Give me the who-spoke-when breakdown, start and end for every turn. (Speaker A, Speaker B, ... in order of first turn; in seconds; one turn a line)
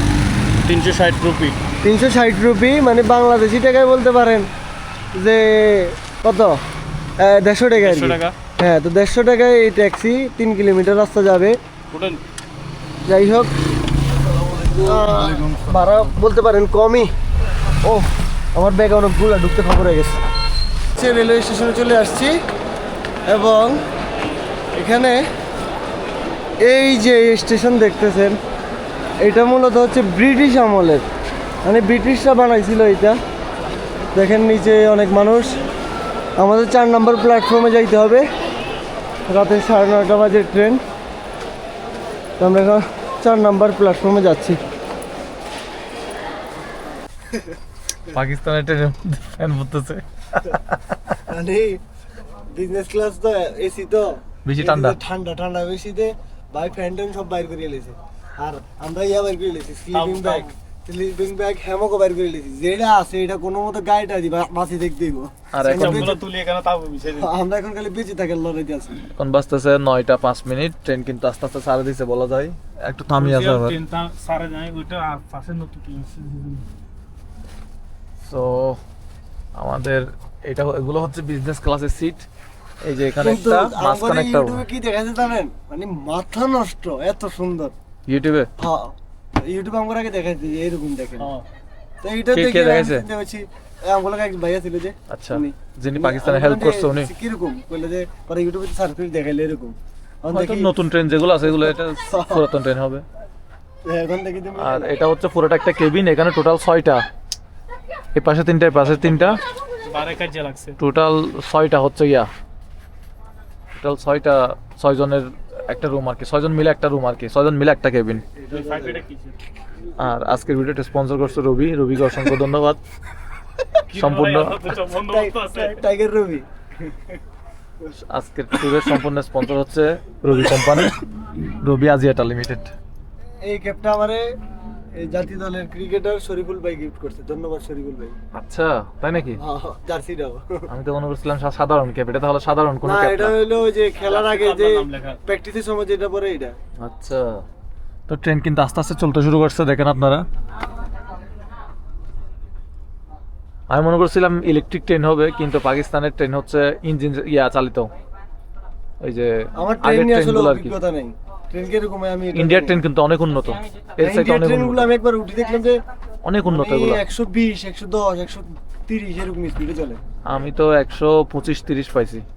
Speaker A: 0.6-1.6
Speaker B: 1.8-4.5
Speaker B: 5.2-6.6
Speaker B: 7.2-11.6
Speaker A: 7.8-8.3
Speaker A: 11.9-12.2
Speaker B: 13.1-13.5
Speaker C: 14.3-14.9
Speaker A: 14.7-15.9
Speaker B: 14.8-17.1
Speaker B: 17.8-20.2
Speaker B: 20.9-22.4
Speaker B: 23.2-23.8
Speaker B: 24.7-25.2
Speaker B: 26.6-28.4
Speaker B: 29.2-31.1
Speaker B: 31.6-33.2
Speaker B: 34.1-35.6
Speaker B: 36.4-38.2
Speaker B: 39.3-40.8
Speaker B: 42.4-44.6
Speaker C: 48.1-51.2
Speaker B: 51.2-51.8
Speaker B: 52.5-66.2
Speaker C: 54.4-55.0
Speaker A: 59.9-60.5
Speaker C: 65.5-66.2
Speaker A: 65.7-67.3
Speaker B: 67.1-69.0
Speaker C: 69.1-73.8
Speaker A: 73.1-76.6
Speaker C: 78.2-78.8
Speaker C: 79.5-82.2
Speaker C: 82.8-84.6
Speaker B: 83.1-87.7
Speaker C: 88.1-88.5
Speaker B: 88.6-91.3
Speaker A: 91.2-91.4
Speaker B: 92.0-100.7
Speaker C: 92.3-93.0
Speaker C: 95.1-97.1
Speaker C: 100.3-103.0
Speaker B: 101.4-102.5
Speaker B: 103.8-105.0
Speaker C: 104.6-107.0
Speaker C: 108.1-109.4
Speaker A: 109.9-110.8
Speaker C: 110.8-112.3
Speaker C: 113.8-118.2
Speaker B: 118.3-119.0
Speaker A: 118.5-119.3
Speaker C: 120.0-122.8
Speaker A: 123.9-125.8
Speaker C: 123.9-124.6
Speaker B: 125.0-126.5
Speaker C: 128.0-131.0
Speaker C: 131.6-132.7
Speaker B: 133.4-134.3
Speaker B: 134.9-138.2
Speaker C: 138.3-139.4
Speaker B: 139.4-140.7
Speaker C: 140.7-143.4
Speaker B: 142.8-146.6
Speaker A: 144.0-145.2
Speaker C: 146.8-147.4
Speaker C: 148.1-150.2
Speaker C: 153.7-157.9
Speaker C: 159.0-160.8
Speaker B: 159.5-162.8
Speaker C: 162.3-164.9
Speaker B: 164.0-165.8
Speaker C: 166.2-167.0
Speaker B: 166.4-170.0
Speaker C: 170.2-172.2